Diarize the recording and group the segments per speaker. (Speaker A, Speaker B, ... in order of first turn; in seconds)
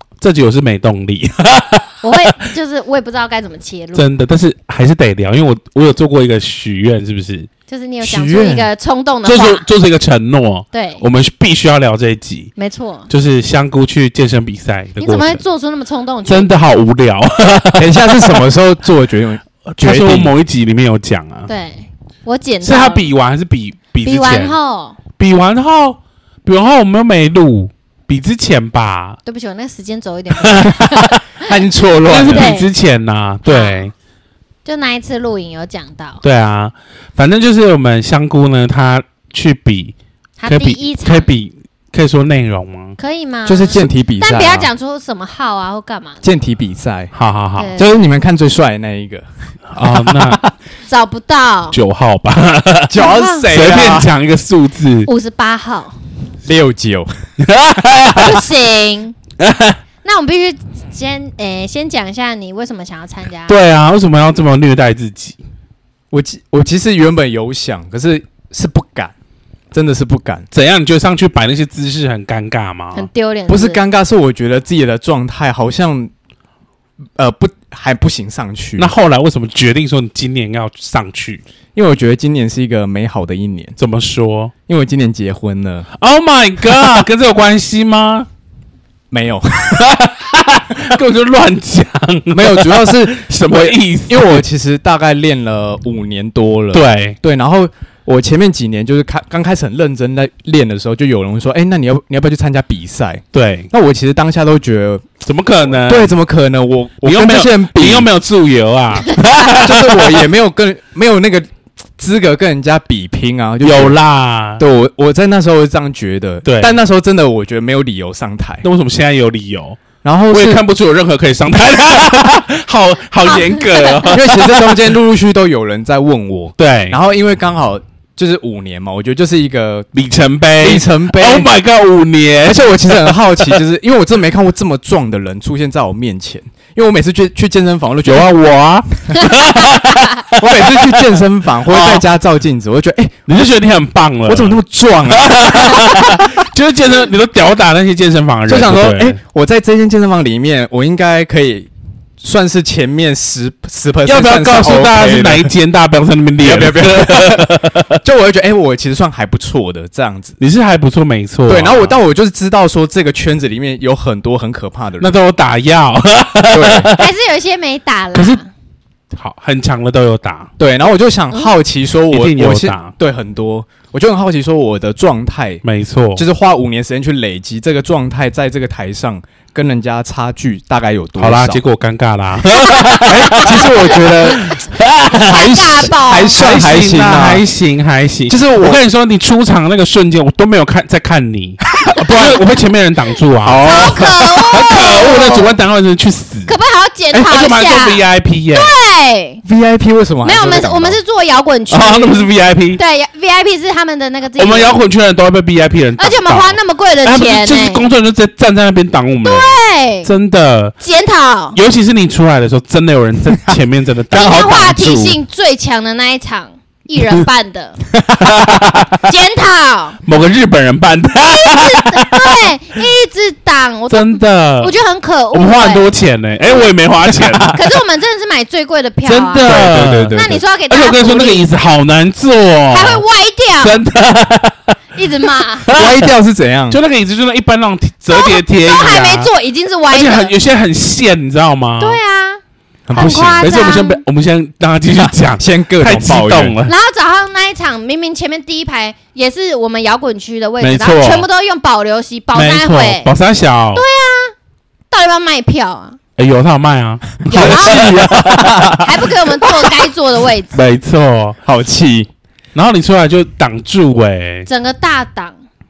Speaker A: 0.2-2.4, 3.9-7.5, 9.2-12.5, 13.1-15.4, 16.3-18.4, 19.7-21.5, 22.6-24.6, 25.1-29.2, 30.5-31.1, 32.1-33.9, 36.2-39.9, 40.5-43.0, 47.1-47.7, 49.7-50.4, 51.7-55.1, 57.4-58.4, 59.4-59.8, 63.5-65.4, 70.5-73.1, 78.8-81.4, 83.8-84.5, 86.0-88.3, 89.7-94.4, 96.7-97.2, 103.3-103.7, 105.2-106.1, 107.0-110.3, 113.6-114.6, 116.4-116.8, 118.6-124.9, 126.6-127.0, 129.9-133.6, 138.1-142.0, 143.3-144.6, 145.1-149.2, 154.1-158.0, 160.4-162.0, 165.0-167.1, 169.1-170.5, 172.1-172.9, 175.6-176.2, 181.2-196.5, 197.1-198.7, 201.7-202.8, 204.4-210.8, 211.5-215.2, 218.2-219.0, 220.0-222.5, 223.9-224.7, 225.3-227.6, 229.0-233.0, 233.6-234.8, 235.6-236.1, 236.7-239.3, 239.9-242.0, 242.9-246.7, 250.6-251.3, 252.3-253.8, 256.2-258.8, 260.5-261.4, 262.5-264.5
Speaker B: 2.0-4.1, 7.7-9.7, 10.7-11.0, 12.6-13.1, 15.0-16.5, 21.5-23.1, 24.0-25.0, 29.2-31.4, 32.2-32.7, 33.4-33.9, 34.6-36.2, 40.4-41.3, 43.0-46.2, 47.5-48.0, 50.9-51.8, 53.0-53.5, 55.0-56.0, 58.1-59.1, 60.0-63.5, 72.9-73.8, 123.2-124.1, 166.9-168.5, 182.5-184.6, 185.1-186.4, 193.6-195.5, 196.5-199.4, 200.2-204.8, 206.0-207.9, 209.2-210.1, 210.8-211.6, 214.1-217.8, 219.0-220.0, 221.2-225.9, 227.5-229.6, 230.1-231.5, 232.7-233.8, 234.9-235.7, 238.1-240.3, 241.8-242.4, 242.9-244.0, 246.6-253.1, 253.7-254.3, 254.9-256.0, 257.2-258.1, 258.8-260.6, 264.5-265.4
Speaker C: 8.0-8.7, 17.8-20.3, 31.4-32.5, 43.5-44.7, 46.2-47.1, 47.8-50.5, 52.9-54.1, 56.4-57.1, 66.1-69.1, 69.7-70.5, 73.5-76.1, 77.2-78.9, 81.7-83.8, 84.7-85.9, 89.1-89.9, 92.3-105.0, 105.7-108.1, 109.5-111.5, 112.0-114.0, 114.6-118.6, 120.0-120.6, 124.1-129.9, 130.6-131.5, 132.4-138.3, 140.4-143.3, 144.2-146.3, 148.5-155.5, 156.4-160.4, 161.5-165.1, 166.5-166.9, 170.6-175.6, 176.1-181.6, 182.9-184.5, 185.1-187.4, 188.3-188.8, 191.9-192.4, 193.4-194.3, 195.0-195.4, 199.4-201.0, 227.2-227.5, 229.4-230.4, 235.7-236.8, 242.9-243.5, 244.9-246.6, 257.3-258.9, 261.4-262.1